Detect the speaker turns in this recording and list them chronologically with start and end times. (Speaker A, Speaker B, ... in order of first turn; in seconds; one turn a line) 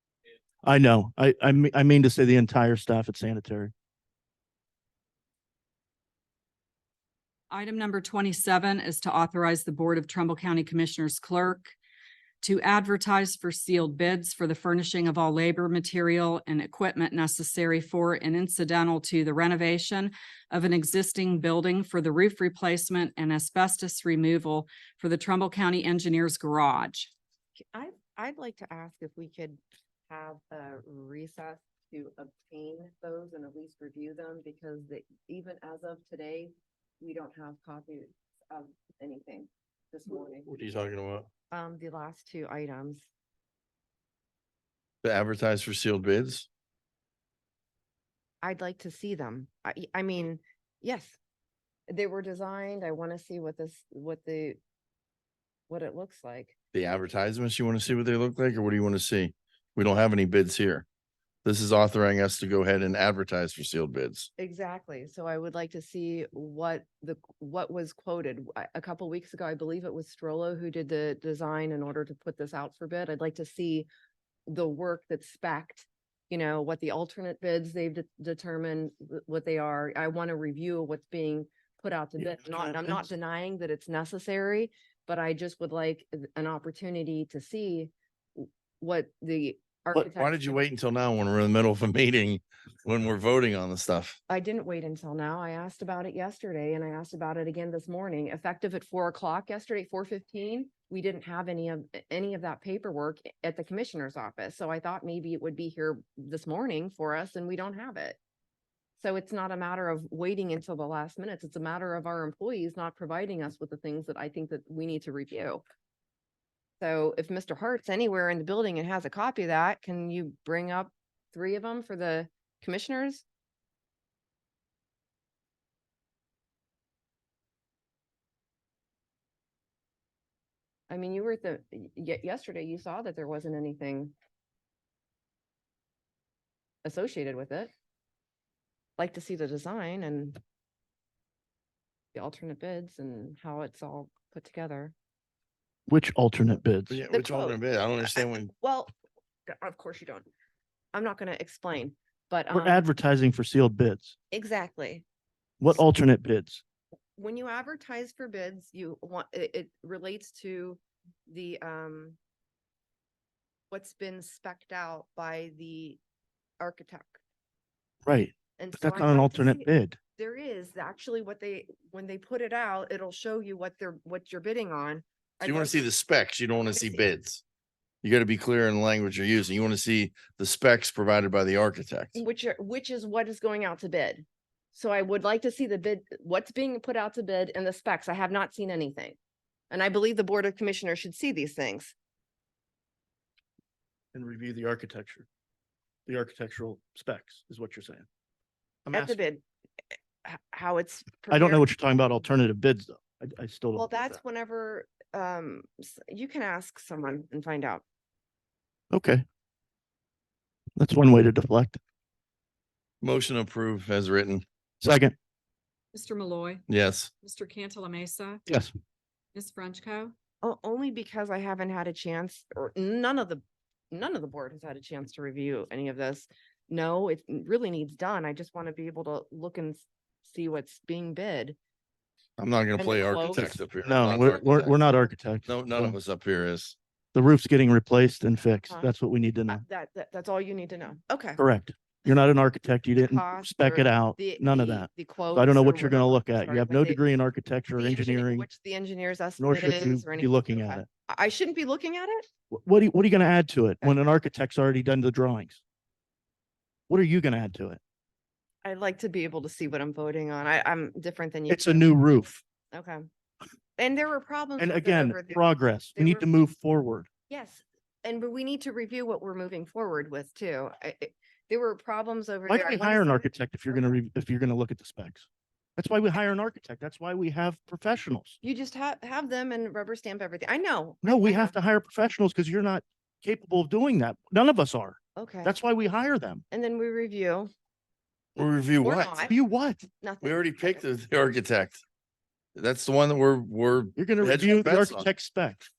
Speaker A: 0.6-3.7
Speaker B: 7.5-11.7
Speaker B: 12.4-27.1
Speaker C: 27.7-40.5
Speaker D: 40.4-41.3
Speaker C: 41.5-43.0
Speaker D: 45.0-46.5
Speaker C: 48.4-51.2
Speaker C: 51.9-54.6
Speaker C: 55.7-56.5
Speaker D: 56.7-60.8
Speaker D: 61.4-64.3
Speaker C: 64.4-73.9
Speaker C: 74.5-90.6
Speaker A: 82.2-83.0
Speaker D: 90.0-94.2
Speaker C: 94.3-108.2
Speaker C: 109.0-115.6
Speaker C: 116.8-123.2
Speaker C: 130.9-134.1
Speaker C: 136.8-137.7
Speaker C: 139.0-140.4
Speaker C: 142.1-144.9
Speaker A: 145.9-147.0
Speaker D: 146.9-148.5
Speaker C: 147.1-148.9
Speaker C: 149.5-150.2
Speaker C: 150.9-152.8
Speaker A: 152.5-154.2
Speaker C: 154.3-155.0
Speaker A: 155.6-156.6
Speaker C: 157.2-162.2
Speaker C: 163.7-166.0
Speaker C: 166.6-167.2
Speaker A: 168.0-170.0
Speaker C: 168.6-175.8
Speaker D: 175.4-177.4
Speaker C: 176.7-177.1
Speaker D: 178.0-182.2
Speaker C: 182.1-189.2
Speaker C: 189.7-191.9
Speaker A: 194.1-195.3
Speaker A: 196.1-198.1
Speaker A: 198.8-199.2
Speaker C: 198.9-199.4
Speaker C: 200.2-201.7
Speaker A: 201.3-204.1
Speaker C: 203.7-207.8
Speaker A: 208.9-209.2
Speaker A: 210.8-211.8
Speaker D: 213.0-214.4
Speaker A: 214.8-215.1
Speaker B: 215.9-216.6
Speaker D: 216.7-217.1
Speaker B: 217.2-218.4
Speaker A: 218.5-218.7
Speaker B: 219.3-220.1
Speaker C: 220.4-231.6
Speaker D: 232.4-234.7
Speaker C: 232.8-234.3
Speaker A: 233.8-235.9
Speaker D: 235.5-236.8
Speaker A: 237.1-239.6
Speaker C: 239.5-241.4
Speaker A: 241.4-248.4
Speaker C: 243.0-247.0
Speaker C: 247.7-252.3
Speaker A: 249.4-250.8
Speaker A: 252.5-255.6
Speaker A: 256.9-257.8
Speaker C: 258.6-261.9
Speaker A: 261.5-262.4
Speaker C: 262.7-263.1
Speaker C: 263.8-265.4
Speaker A: 264.6-267.1
Speaker C: 265.9-266.3
Speaker C: 267.3-273.9
Speaker A: 272.5-278.4
Speaker C: 278.4-281.5
Speaker A: 281.0-286.4
Speaker C: 285.1-285.5
Speaker C: 286.5-287.5
Speaker D: 288.4-289.3
Speaker C: 288.8-289.3
Speaker A: 289.2-289.8
Speaker C: 290.0-290.8
Speaker D: 290.2-291.8
Speaker D: 292.5-295.1
Speaker A: 293.9-295.6